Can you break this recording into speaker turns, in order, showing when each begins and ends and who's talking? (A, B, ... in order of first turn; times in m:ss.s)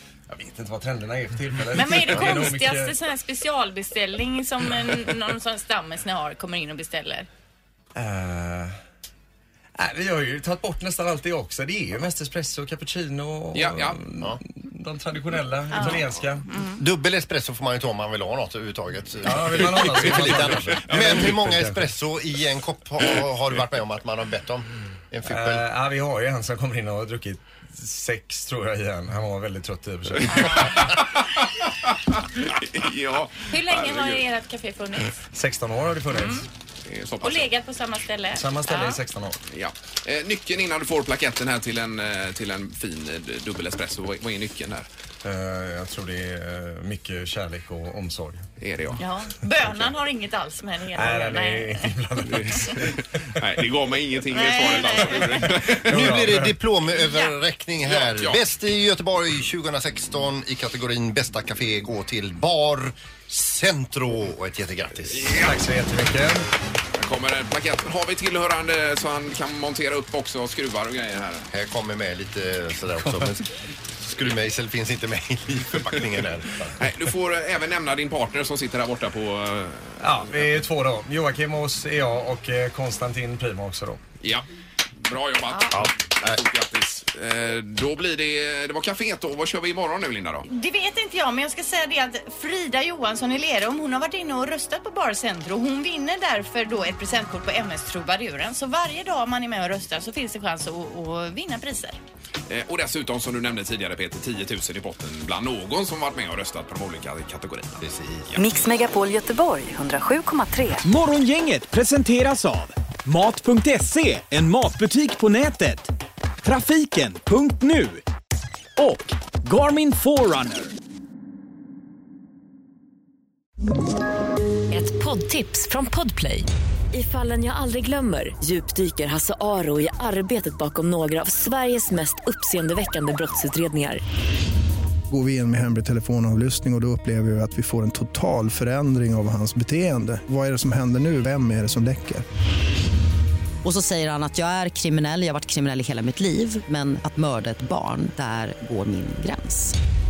0:00.3-0:03.0 A
0:01.7-0:07.3 B
0:08.0-0:08.7 A
0:09.8-0:16.5 A
0:13.5-0:14.0 C
0:15.7-0:16.8 B
0:16.8-0:25.7 D
0:19.2-0:21.9 A
0:19.8-0:21.2 C
0:25.3-0:30.9 A
0:30.3-0:31.2 C
0:32.4-0:34.2 C
0:33.4-0:35.2 B
0:35.3-0:36.5 A
0:36.1-0:36.5 B
0:36.9-0:37.5 C
0:37.2-0:39.0 B
0:38.3-0:39.4 A
0:39.5-0:44.9 C
0:45.2-0:48.4 A
0:48.6-0:49.0 C
0:49.0-0:51.9 B
0:51.0-0:53.5 A
0:52.3-0:56.2 C
0:54.3-0:55.6 B
0:55.8-1:05.4 D
0:55.9-0:56.6 A
0:57.8-0:58.4 C
1:05.1-1:05.6 C
1:05.4-1:06.4 A
1:07.0-1:11.5 C
1:11.5-1:16.8 D
1:13.0-1:13.3 A
1:16.8-1:20.5 C
1:20.0-1:24.0 A
1:25.0-1:30.4 C
1:25.5-1:25.8 B
1:25.7-1:26.4 D
1:30.5-1:42.0 B
1:42.5-1:48.4 C
1:47.8-1:48.3 D
1:48.4-1:50.8 E
1:50.8-1:55.9 F
1:56.4-1:58.0 F
1:58.8-2:00.7 F
2:04.7-2:14.0 G
2:15.1-2:22.2 H
2:23.6-2:29.7 I